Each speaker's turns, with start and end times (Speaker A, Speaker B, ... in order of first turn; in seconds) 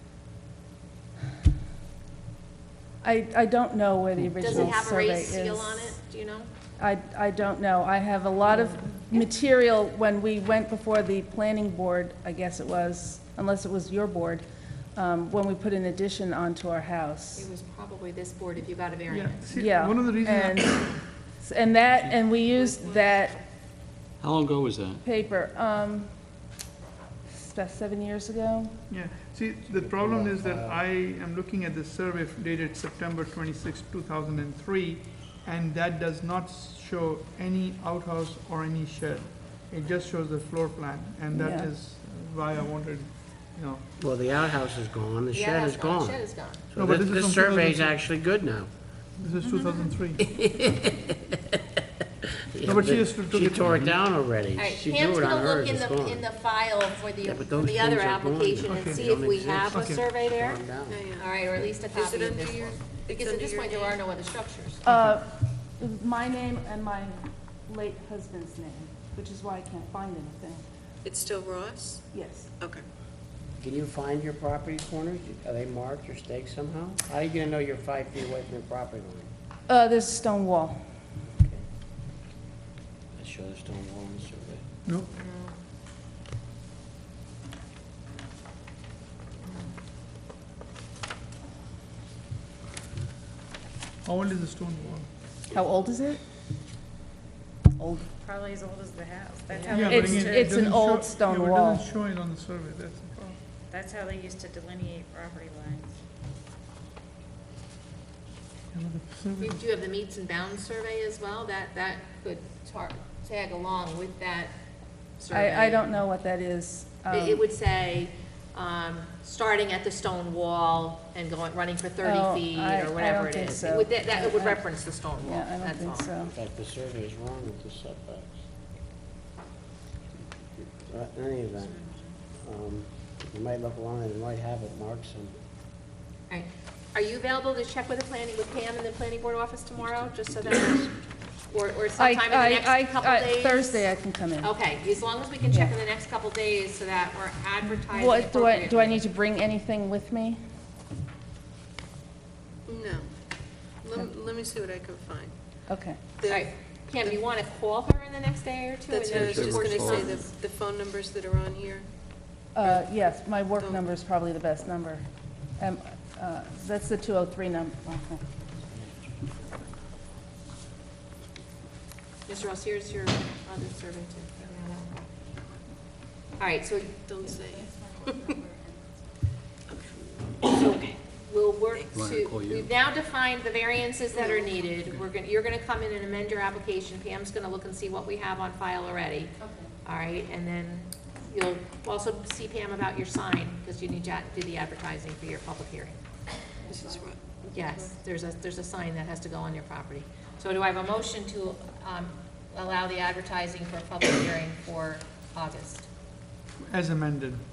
Speaker A: 3.0-6.0, 6.8-17.5, 19.5-23.4, 25.0-26.1, 27.3-28.8, 41.3-41.7, 64.9-70.6, 72.1-72.5, 79.7-80.8, 95.5-96.2, 97.8-98.1, 99.8-101.9, 115.3-117.5, 122.0-126.3, 142.0-144.5, 145.5-145.8, 147.9-150.4, 155.7-156.0, 162.6-165.0, 165.6-168.2, 178.1-178.6, 189.4-189.7, 196.7-197.1
Speaker B: 4.2-4.7, 24.2-25.0, 140.2-140.8, 159.1-160.1, 181.9-182.7
Speaker C: 4.4-6.5, 17.4-19.5, 45.3-46.6, 54.6-60.6, 61.2-64.9, 85.1-85.6, 89.4-89.8, 109.4-114.6, 115.2-116.0, 117.1-126.1, 136.3-143.9, 144.4-149.0, 156.3-160.3, 172.3-175.1, 176.4-177.1, 180.5-196.0, 197.5-205.9
Speaker D: 19.1-21.0, 28.9-43.9, 46.8-48.0, 49.2-50.2, 52.6-53.9, 58.7-59.1, 59.7-60.1, 94.0-95.1, 99.7-103.4, 108.7-109.6, 206.6-207.4
Speaker E: 22.5-23.2, 60.9-64.0, 71.0-72.0, 72.6-72.8, 152.7-153.1, 153.8-155.3, 156.2-156.5, 158.9-161.9, 177.0-178.3, 184.1-184.5, 196.7-197.3
Speaker F: 29.7-30.8, 44.0-48.7, 50.2-51.6, 52.5-56.3, 57.2-61.0, 73.6-79.3, 81.3-81.7, 83.2-84.7, 126.3-128.4, 130.6-131.8, 132.4-135.4
Speaker G: 98.2-100.5, 103.7-106.0